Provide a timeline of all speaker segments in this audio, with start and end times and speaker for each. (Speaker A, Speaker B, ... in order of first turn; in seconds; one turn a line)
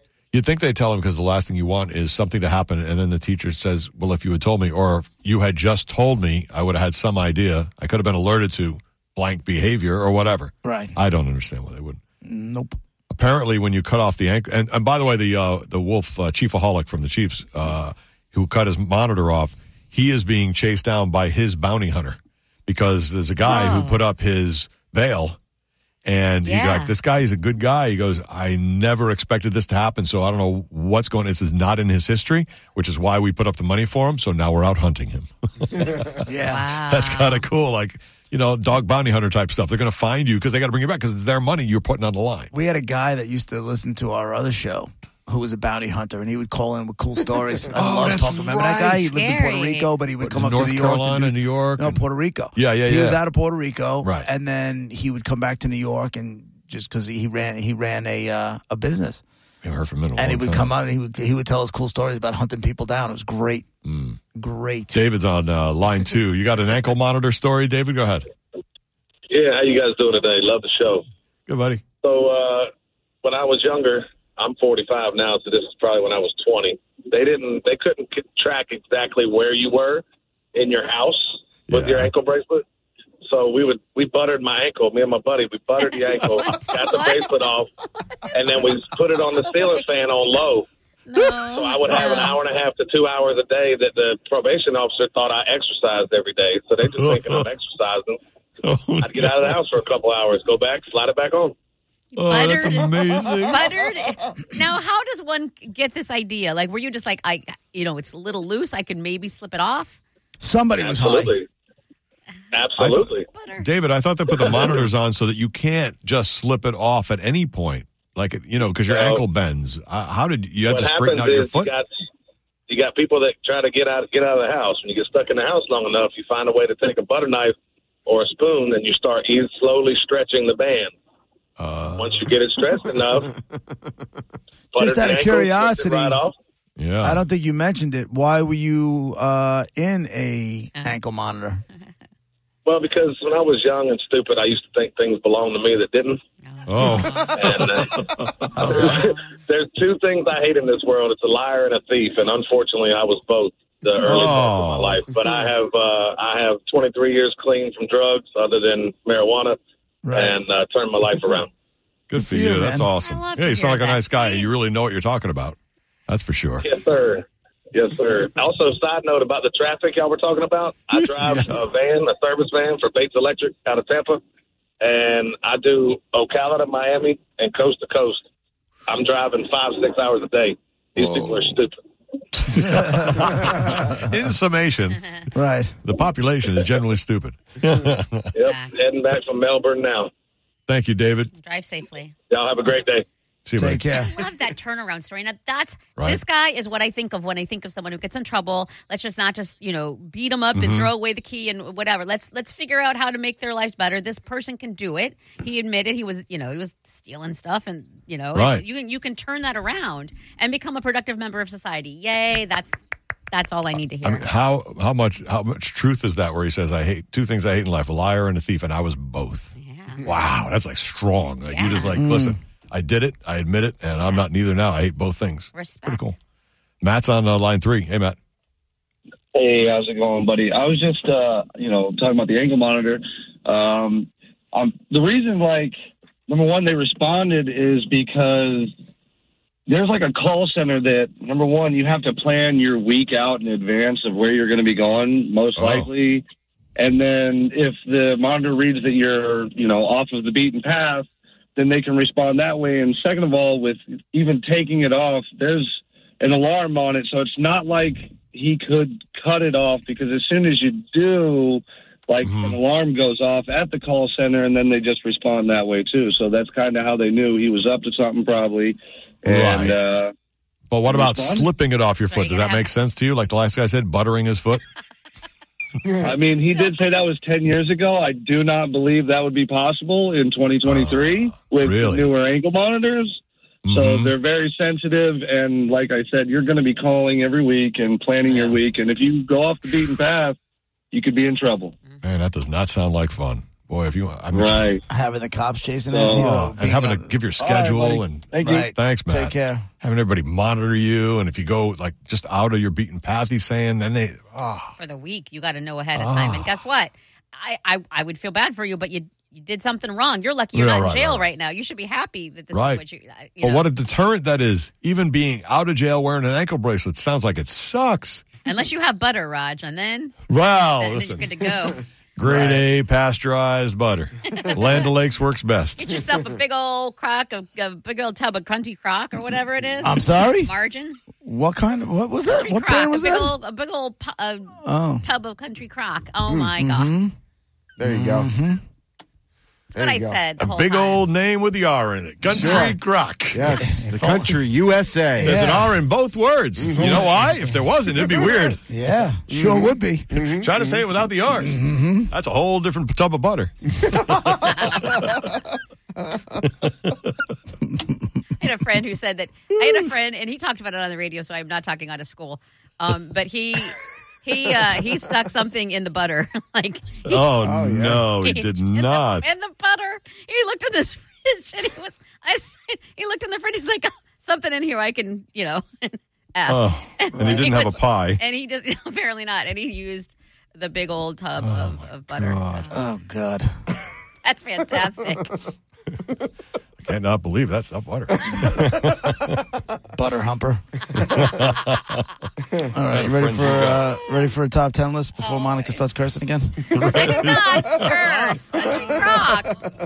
Speaker A: 0.3-12.0
Speaker B: 10.6-10.9
Speaker B: 12.2-12.8
Speaker A: 13.1-25.4
Speaker C: 23.4-24.0
Speaker A: 26.0-36.3
Speaker C: 26.4-26.9
Speaker B: 36.3-36.7
Speaker C: 36.5-37.4
Speaker A: 36.9-42.5
Speaker B: 42.5-59.2
Speaker A: 47.8-49.1
Speaker C: 49.1-49.9
Speaker A: 50.2-52.0
Speaker A: 52.5-53.2
Speaker A: 59.6-60.7
Speaker B: 60.1-63.6
Speaker A: 63.8-64.2
Speaker B: 64.3-65.0
Speaker A: 64.9-68.3
Speaker D: 69.3-71.0
Speaker A: 71.5-71.8
Speaker D: 72.0-72.7
Speaker D: 73.2-80.0
Speaker D: 80.5-82.6
Speaker A: 81.7-82.1
Speaker D: 83.2-87.7
Speaker C: 85.9-88.3
Speaker D: 88.3-90.7
Speaker C: 91.0-92.4
Speaker D: 91.4-98.2
Speaker A: 96.9-97.5
Speaker A: 98.6-99.5
Speaker D: 99.0-101.5
Speaker C: 102.1-110.0
Speaker A: 102.2-103.6
Speaker B: 110.4-111.3
Speaker D: 110.8-111.5
Speaker D: 112.5-113.2
Speaker A: 112.8-121.7
Speaker C: 113.3-113.7
Speaker D: 114.3-114.8
Speaker D: 118.9-119.2
Speaker D: 120.7-121.9
Speaker D: 122.7-127.5
Speaker D: 128.1-130.9
Speaker A: 131.6-132.3
Speaker D: 132.0-133.3
Speaker B: 134.7-136.2
Speaker D: 134.7-136.3
Speaker A: 136.8-137.2
Speaker B: 137.0-141.6
Speaker D: 142.7-146.2
Speaker C: 146.4-147.4
Speaker A: 146.7-148.8
Speaker D: 147.3-148.0
Speaker B: 148.6-149.1
Speaker D: 148.6-159.6
Speaker C: 148.7-149.3
Speaker A: 154.0-155.0
Speaker B: 160.0-160.3
Speaker D: 160.1-161.5
Speaker A: 162.1-165.6
Speaker B: 162.1-162.9
Speaker C: 163.0-164.5
Speaker A: 166.1-166.7
Speaker D: 166.6-174.2
Speaker A: 171.2-171.6
Speaker D: 174.8-178.2
Speaker D: 178.9-181.7
Speaker A: 181.0-181.5
Speaker A: 182.5-185.2
Speaker B: 182.6-183.9
Speaker B: 185.3-185.8
Speaker A: 185.8-188.3
Speaker D: 188.3-190.1
Speaker C: 188.5-188.8
Speaker A: 190.7-191.3
Speaker C: 191.4-192.1
Speaker D: 192.3-193.1
Speaker A: 193.4-193.8
Speaker B: 193.6-194.1
Speaker C: 193.9-212.8
Speaker A: 200.6-200.9
Speaker A: 208.3-208.6
Speaker C: 213.3-214.3
Speaker A: 214.0-226.2
Speaker C: 219.6-220.0
Speaker C: 221.5-222.0
Speaker B: 221.9-222.4
Speaker C: 225.5-226.1
Speaker A: 226.8-228.2
Speaker E: 229.3-235.7
Speaker E: 236.3-238.7
Speaker E: 239.7-246.2
Speaker A: 245.6-245.9
Speaker E: 246.8-270.1
Speaker A: 262.2-262.6
Speaker A: 269.2-269.8
Speaker A: 270.7-274.6
Speaker E: 270.9-271.5
Speaker C: 272.1-272.7
Speaker E: 276.0-290.4
Speaker C: 276.4-276.9
Speaker A: 280.6-282.1
Speaker A: 283.6-284.1
Speaker E: 290.9-291.7
Speaker A: 292.0-294.7
Speaker E: 294.3-294.8
Speaker B: 294.9-297.1
Speaker E: 295.9-296.4
Speaker A: 296.1-304.7
Speaker E: 297.4-298.7
Speaker B: 298.4-299.6
Speaker C: 304.8-313.7
Speaker A: 305.9-306.5
Speaker A: 310.5-311.2
Speaker A: 312.5-312.8
Speaker A: 313.4-318.2
Speaker C: 318.4-321.8
Speaker A: 320.3-321.4
Speaker A: 322.2-325.9
Speaker C: 324.4-324.8
Speaker C: 325.8-331.0
Speaker B: 329.8-330.5
Speaker B: 331.2-333.3
Speaker C: 332.2-336.9
Speaker B: 334.6-335.0
Speaker B: 336.6-337.1
Speaker F: 337.8-338.3
Speaker B: 337.8-338.6
Speaker F: 339.7-340.2
Speaker C: 339.7-341.1
Speaker A: 340.4-343.6
Speaker F: 342.3-342.8
Speaker B: 342.4-342.7
Speaker F: 343.3-345.4
Speaker B: 343.6-344.4
Speaker A: 345.2-348.6
Speaker B: 345.2-345.8
Speaker F: 346.7-347.1
Speaker B: 348.7-350.1
Speaker F: 349.3-349.7
Speaker A: 350.1-355.3
Speaker B: 351.4-352.1
Speaker C: 354.4-354.9
Speaker A: 356.6-357.1
Speaker C: 358.4-367.2
Speaker A: 367.1-369.2
Speaker F: 367.4-368.1
Speaker C: 368.2-382.8
Speaker A: 376.5-378.2
Speaker B: 377.2-377.5
Speaker A: 381.4-382.8
Speaker B: 382.7-383.5
Speaker C: 384.2-385.3
Speaker A: 386.8-389.4
Speaker B: 389.9-390.6
Speaker A: 390.9-392.0
Speaker B: 392.6-396.9
Speaker A: 392.9-393.9
Speaker C: 395.2-395.8
Speaker C: 396.7-399.6
Speaker A: 396.8-397.9